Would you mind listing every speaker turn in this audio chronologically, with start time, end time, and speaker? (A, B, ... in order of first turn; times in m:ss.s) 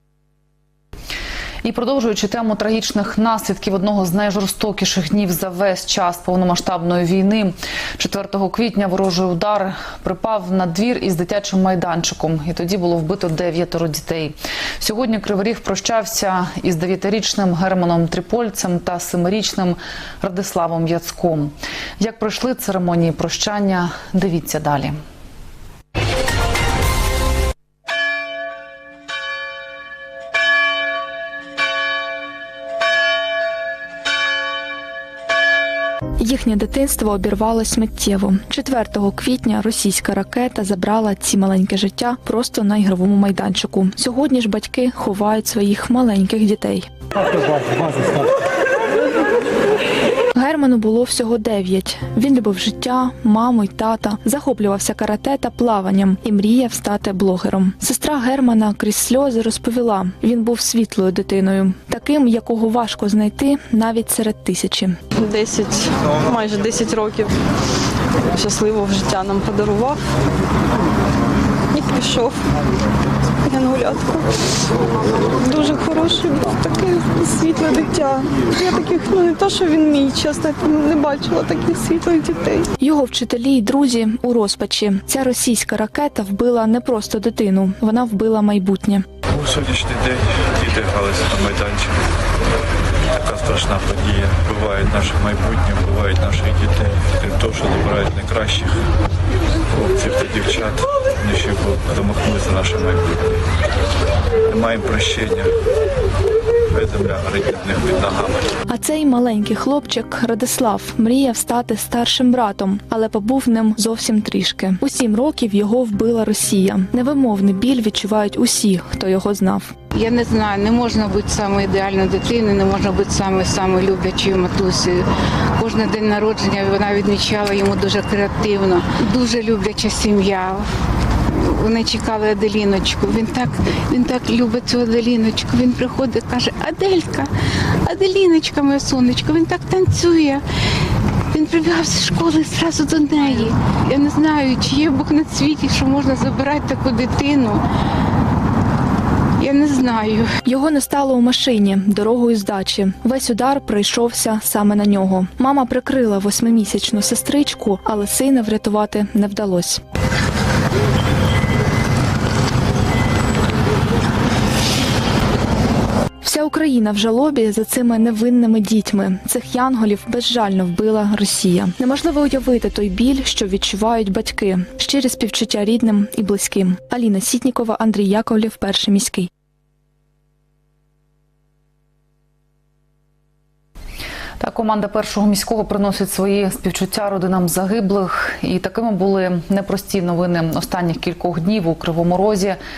0:01.6-0:25.0 A
0:36.2-0:46.9 B
0:47.5-0:48.0 B
0:50.4-1:05.0 B
1:05.3-1:07.2 C
1:08.4-1:10.0 C
1:11.8-1:12.3 C
1:13.5-1:14.2 C
1:15.5-1:18.1 C
1:18.6-1:22.6 C
1:22.8-1:29.0 B
1:29.4-1:31.9 D
1:33.2-1:38.7 D
1:39.8-1:43.0 D
1:44.5-1:45.5 D
1:46.8-1:48.4 D
1:48.7-1:59.7 B
1:59.9-2:05.1 E
2:05.6-2:10.7 E
2:11.4-2:17.3 E
2:17.8-2:20.4 E
2:21.3-2:27.6 E
2:29.4-2:30.3 E
2:30.4-2:39.8 B
2:46.2-2:59.3 B
3:04.4-3:12.6 A